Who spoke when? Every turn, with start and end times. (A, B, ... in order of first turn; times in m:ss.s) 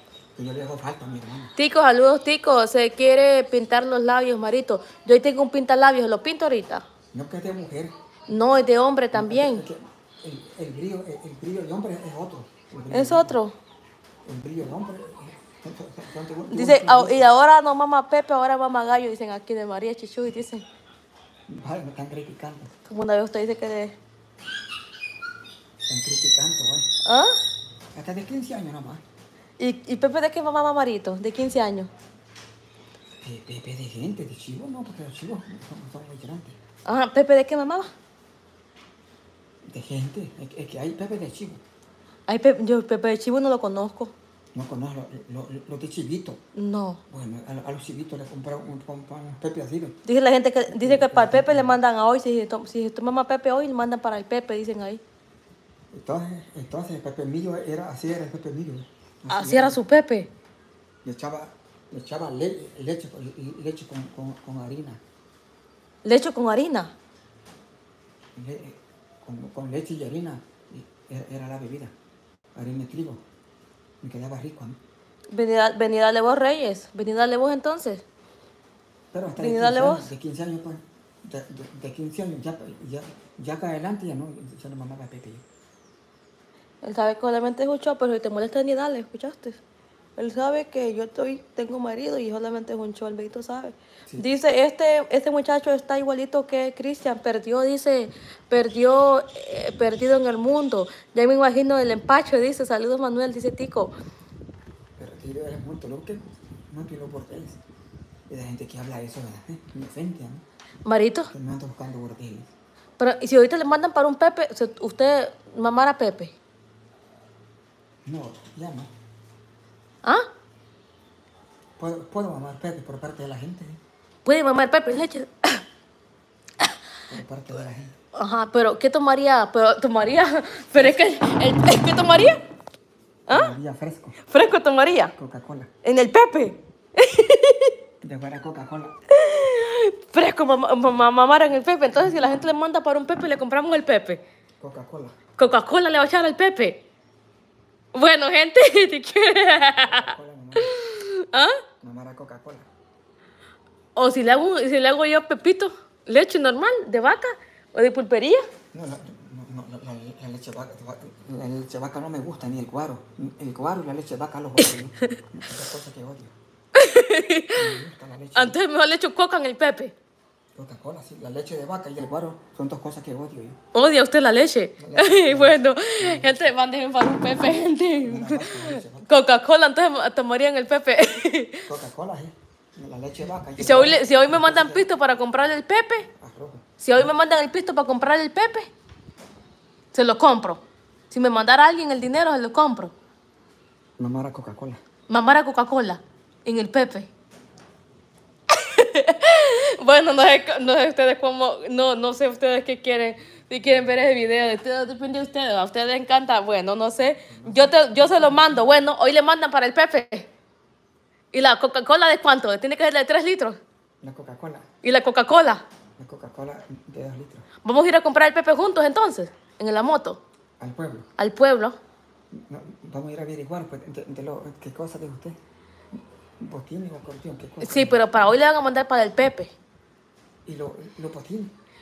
0:00.4-0:01.5 A
0:01.6-0:06.8 B
0:07.1-0:07.9 A
0:08.3-0:09.6 B
0:09.1-0:13.4 A
0:12.9-0:13.5 B
0:14.2-0:17.3 A
0:16.5-0:20.6 B
0:21.5-0:22.7 A
0:22.9-0:24.0 B
0:25.8-0:26.9 A
0:27.0-0:27.4 B
0:27.9-0:29.0 A
0:29.6-0:31.9 B
0:33.2-0:36.6 A
0:36.8-0:37.9 B
0:39.6-0:41.6 A
0:42.3-0:44.1 B
0:44.5-0:46.4 A
0:46.6-0:47.0 B
0:47.1-0:50.0 A
0:50.0-0:55.0 B
0:50.7-0:51.8 A
0:55.9-0:59.8 A
0:59.3-1:00.3 B
1:01.0-1:05.0 A
1:06.0-1:06.9 B
1:08.3-1:11.9 A
1:12.5-1:13.2 A
1:14.0-1:14.8 A
1:15.3-1:18.0 B
1:19.1-1:25.4 A
1:19.4-1:20.1 B
1:26.8-1:29.6 B
1:30.2-1:43.9 B
1:45.0-1:47.6 A
1:48.3-1:50.4 A
1:50.8-1:51.3 B
1:51.3-1:52.5 A
1:53.0-1:56.3 B
1:58.0-1:58.9 A
2:01.8-2:03.8 A
2:04.2-2:05.6 B
2:07.1-2:07.9 A
2:08.1-2:12.4 B
2:10.7-2:11.0 A
2:13.3-2:13.5 B
2:13.3-2:14.2 A
2:14.2-2:15.1 B
2:15.1-2:15.7 A
2:15.8-2:17.7 B
2:18.0-2:19.0 A
2:19.1-2:24.2 B
2:24.6-2:25.2 A
2:25.4-2:26.8 B
2:27.9-2:31.6 B
2:29.8-2:30.7 A
2:31.8-2:32.7 A
2:34.0-2:38.4 B
2:38.7-2:46.3 A
2:46.7-2:47.8 B
2:47.5-2:48.6 A
2:48.3-2:49.9 B
2:50.5-2:53.6 A
2:53.7-3:01.7 B
2:54.8-2:56.5 A
2:58.0-2:59.0 A
3:01.6-3:04.9 A
3:03.6-3:06.1 B
3:06.2-3:06.6 A
3:06.8-3:08.7 B
3:09.9-3:12.9 B
3:14.0-3:14.8 A
3:15.1-3:17.1 B
3:18.5-3:30.3 B
3:27.3-3:28.7 A
3:31.3-3:33.6 B
3:34.0-3:34.6 A
3:34.8-3:35.6 B
3:36.0-3:37.5 A
3:37.6-3:40.2 B
3:40.6-3:41.1 A
3:41.2-3:41.7 B
3:42.3-3:45.3 A
3:45.9-3:48.1 A
3:47.6-3:49.5 B
3:50.4-3:51.5 A